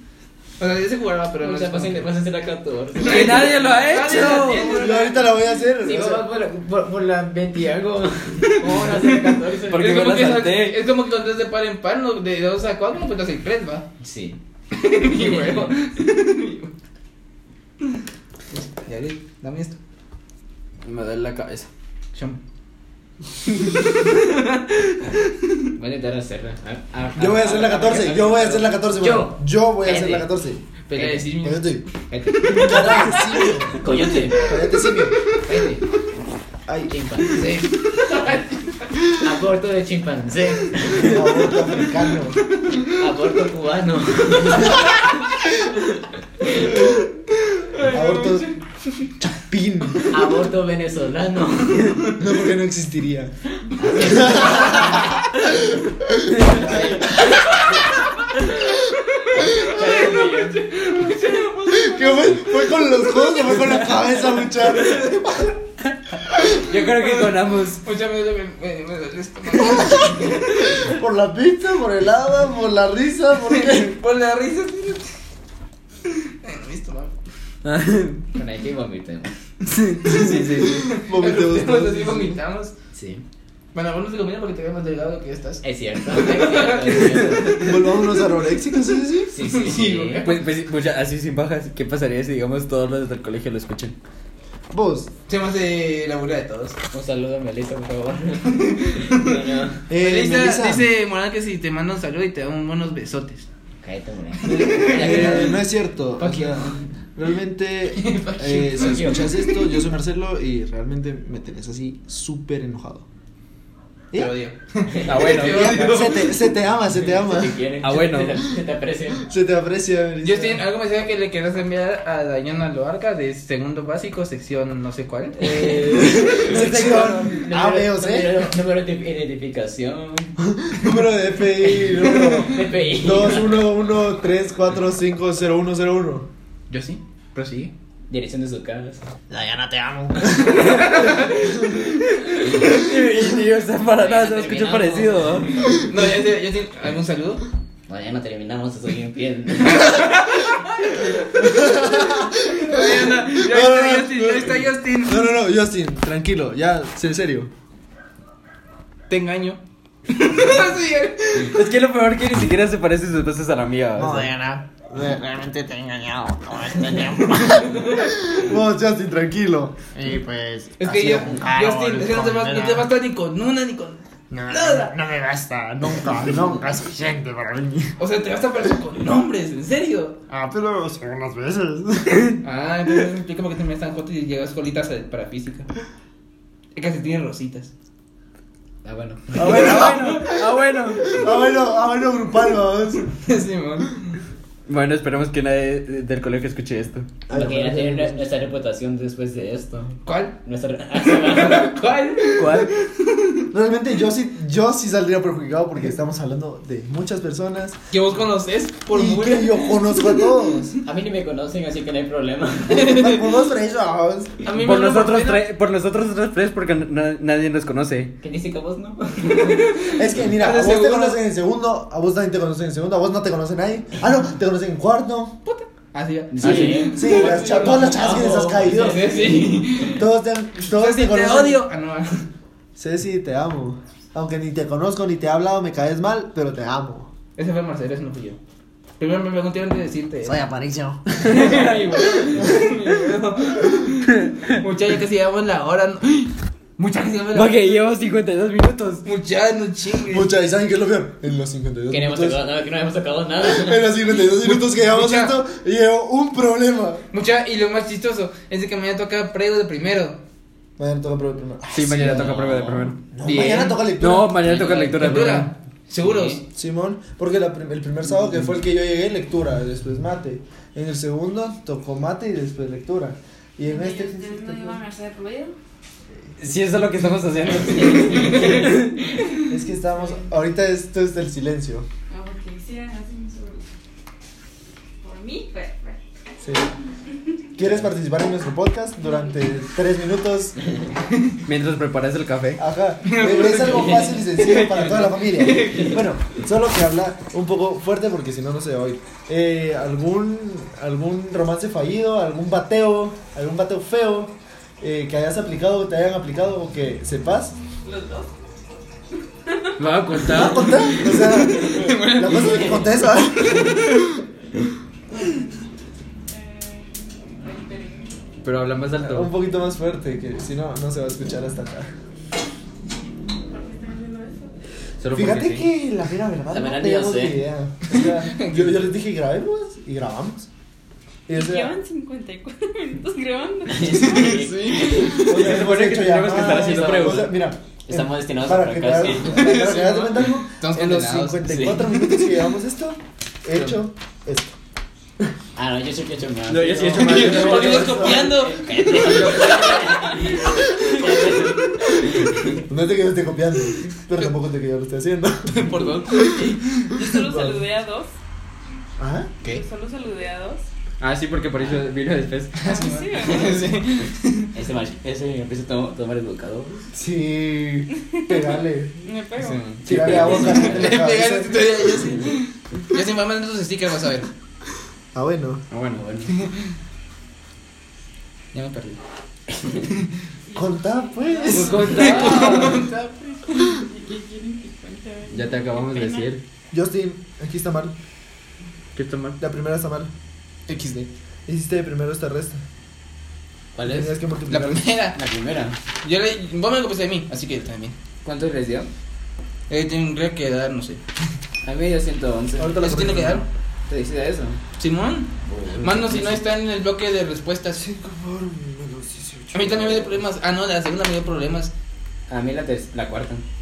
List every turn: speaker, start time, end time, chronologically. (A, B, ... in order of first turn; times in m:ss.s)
0:00.6-0:02.1 A
0:01.4-0:04.5 B
0:03.0-0:05.3 A
0:03.0-0:04.8 C
0:04.6-0:06.2 D
0:05.8-0:10.1 B
0:08.6-0:13.9 A
0:09.7-0:10.8 C
0:14.0-0:14.4 B
0:14.7-0:16.7 A
0:15.1-0:15.7 B
0:18.5-0:19.8 A
0:20.8-0:21.7 C
0:22.2-0:22.4 A
0:23.6-0:25.0 A
0:25.7-0:30.3 B
0:27.2-0:30.6 D
0:30.9-0:31.8 A
0:31.0-0:31.3 B
0:31.4-0:31.8 D
0:32.1-0:34.7 B
0:32.5-0:33.0 A
0:32.5-0:33.8 D
0:33.8-0:34.3 A
0:34.5-0:35.2 D
0:35.4-0:36.0 B
0:36.7-0:36.9 D
0:36.9-0:37.4 B
0:37.3-0:38.9 A
0:39.2-0:41.1 B
0:41.0-0:42.4 D
0:43.0-0:44.9 B
0:47.7-0:48.6 A
0:47.9-0:48.5 D
0:49.2-0:50.1 D
0:50.1-0:52.1 B
0:52.2-0:53.3 D
0:53.8-0:55.0 B
0:53.9-0:56.6 D
0:56.4-0:57.9 B
0:58.8-1:02.5 A
0:59.4-1:00.6 B
1:01.7-1:05.5 D
1:06.6-1:07.8 C
1:06.7-1:10.8 A
1:10.8-1:14.0 D
1:13.4-1:15.1 A
1:16.1-1:17.1 A
1:17.6-1:18.2 C
1:18.4-1:19.3 B
1:19.7-1:20.9 C
1:20.1-1:22.4 D
1:20.8-1:22.7 A
1:22.9-1:23.2 B
1:23.7-1:28.0 A
1:25.6-1:27.7 B
1:27.6-1:29.3 D
1:29.3-1:30.3 B
1:29.4-1:30.5 A
1:30.2-1:34.0 C
1:34.7-1:35.1 D
1:35.3-1:36.8 A
1:36.9-1:39.8 B
1:38.5-1:43.5 A
1:39.9-1:40.9 D
1:43.8-1:45.5 B
1:44.4-1:45.6 A
1:44.6-1:53.1 D
1:46.2-1:46.8 B
1:47.9-1:49.7 A
1:48.7-1:49.2 B
1:54.1-1:56.4 A
1:55.1-1:56.0 C
1:55.3-1:57.6 D
1:56.9-1:59.2 B
1:57.8-1:58.4 C
1:59.2-2:00.6 D
2:00.2-2:06.3 A
2:05.4-2:10.4 B
2:05.5-2:07.3 C
2:06.0-2:08.5 D
2:10.5-2:16.3 D
2:11.6-2:13.7 B
2:16.7-2:17.7 A
2:18.1-2:19.0 B
2:19.3-2:20.7 D
2:20.5-2:21.5 A
2:22.4-2:25.5 C
2:24.0-2:25.7 B
2:25.8-2:27.4 A
2:27.9-2:30.0 B
2:29.6-2:35.3 A
2:31.4-2:37.5 D
2:39.1-2:41.6 A
2:41.5-2:44.3 C
2:44.0-2:52.9 D
2:47.5-2:48.1 A
2:50.8-2:55.0 A
2:54.3-2:58.0 D
2:58.0-3:00.2 A
3:00.3-3:02.4 D
3:02.4-3:05.7 A
3:06.8-3:07.7 A
3:08.8-3:09.7 B
3:09.4-3:10.5 D
3:09.4-3:11.2 C
3:09.5-3:10.4 A
3:11.0-3:13.1 D
3:13.2-3:14.2 A
3:14.7-3:17.2 C
3:17.3-3:18.2 D
3:17.3-3:21.7 B
3:20.0-3:20.4 A
3:21.0-3:23.5 A
3:22.4-3:22.7 C
3:23.5-3:27.8 D
3:27.9-3:30.3 A
3:28.9-3:30.8 D
3:30.8-3:32.9 B
3:32.7-3:33.2 A
3:32.7-3:34.4 D
3:34.4-3:35.5 A
3:34.6-3:38.1 C
3:38.2-3:39.7 B
3:39.4-3:41.2 A
3:40.0-3:45.4 D
3:45.4-3:50.0 A
3:46.3-3:49.8 B
3:46.4-3:49.1 D
3:49.9-3:51.6 D
3:50.6-3:52.3 A
3:52.8-3:57.1 D
3:57.4-3:58.4 A
3:59.0-4:00.4 A
4:00.2-4:01.6 D
4:01.2-4:07.8 A
4:01.3-4:01.8 C
4:04.1-4:04.6 C
4:07.3-4:09.0 C
4:09.0-4:10.3 A
4:10.1-4:12.4 D
4:11.9-4:13.9 B
4:13.4-4:17.1 D
4:14.4-4:15.4 A
4:17.1-4:20.2 A
4:20.8-4:22.3 D
4:21.7-4:25.5 C
4:22.0-4:22.9 B
4:23.2-4:24.4 D
4:24.4-4:25.1 B
4:24.6-4:26.4 A
4:26.0-4:26.4 B
4:26.5-4:34.8 D
4:33.7-4:35.6 E
4:36.4-4:39.1 C
4:38.0-4:38.6 A
4:39.5-4:41.9 D
4:39.9-4:40.3 E
4:42.1-4:43.7 E
4:45.0-4:46.0 E
4:46.4-4:46.7 D
4:47.6-4:50.6 D
4:49.0-4:49.6 E
4:51.5-4:52.6 C
4:52.6-5:07.6 D
4:53.0-4:56.0 A
5:07.8-5:08.3 E
5:09.8-5:11.1 C
5:10.3-5:13.9 D
5:11.0-5:14.0 A
5:15.1-5:15.5 E
5:16.3-5:18.2 E
5:18.4-5:19.3 C
5:19.0-5:21.9 D
5:23.5-5:24.5 E
5:25.0-5:25.7 C
5:25.1-5:30.5 D
5:26.5-5:27.5 B
5:27.9-5:28.9 A
5:31.3-5:31.8 D
5:31.3-5:34.4 E
5:33.7-5:35.3 B
5:33.8-5:35.5 A
5:35.2-5:44.6 D
5:35.3-5:37.3 C
5:36.4-5:37.3 B
5:37.9-5:39.5 B
5:39.2-5:41.8 A
5:41.5-5:41.8 B
5:43.5-5:43.8 A
5:45.6-5:52.6 B
5:46.5-5:48.0 C
5:46.6-5:48.5 D
5:47.0-5:50.1 A
5:52.7-5:56.5 D
5:55.5-5:57.0 A
5:56.9-5:58.2 E
5:57.1-5:57.6 D
5:59.0-5:59.3 D
5:59.4-6:00.6 E
6:01.0-6:02.7 C
6:01.6-6:01.8 B
6:02.6-6:03.7 E
6:02.6-6:04.5 A
6:04.5-6:06.9 B
6:06.9-6:08.9 D
6:08.1-6:08.5 E
6:09.0-6:09.6 E
6:09.4-6:14.3 A
6:09.8-6:11.6 D
6:09.9-6:10.9 B
6:15.1-6:15.6 D
6:15.7-6:16.1 C
6:16.0-6:16.3 B
6:16.3-6:16.7 A
6:18.5-6:19.0 A
6:20.5-6:26.4 E
6:20.6-6:22.1 D
6:21.5-6:22.8 C
6:21.8-6:23.1 A
6:25.3-6:26.4 C
6:26.7-6:28.0 D
6:29.0-6:29.4 C
6:29.4-6:30.1 D
6:30.7-6:31.1 A
6:31.5-6:32.6 D
6:33.8-6:34.1 B
6:33.8-6:34.9 D
6:34.5-6:35.2 A
6:35.2-6:35.8 B
6:36.0-6:38.0 A
6:38.2-6:38.9 B
6:39.7-6:41.0 A
6:41.6-6:42.8 B
6:42.6-6:43.5 D
6:42.8-6:43.4 A
6:43.9-6:44.6 B
6:44.8-6:45.3 A
6:45.5-6:46.4 B
6:45.8-6:47.8 A
6:47.8-6:50.1 D
6:49.5-6:51.7 A
6:52.3-6:53.4 B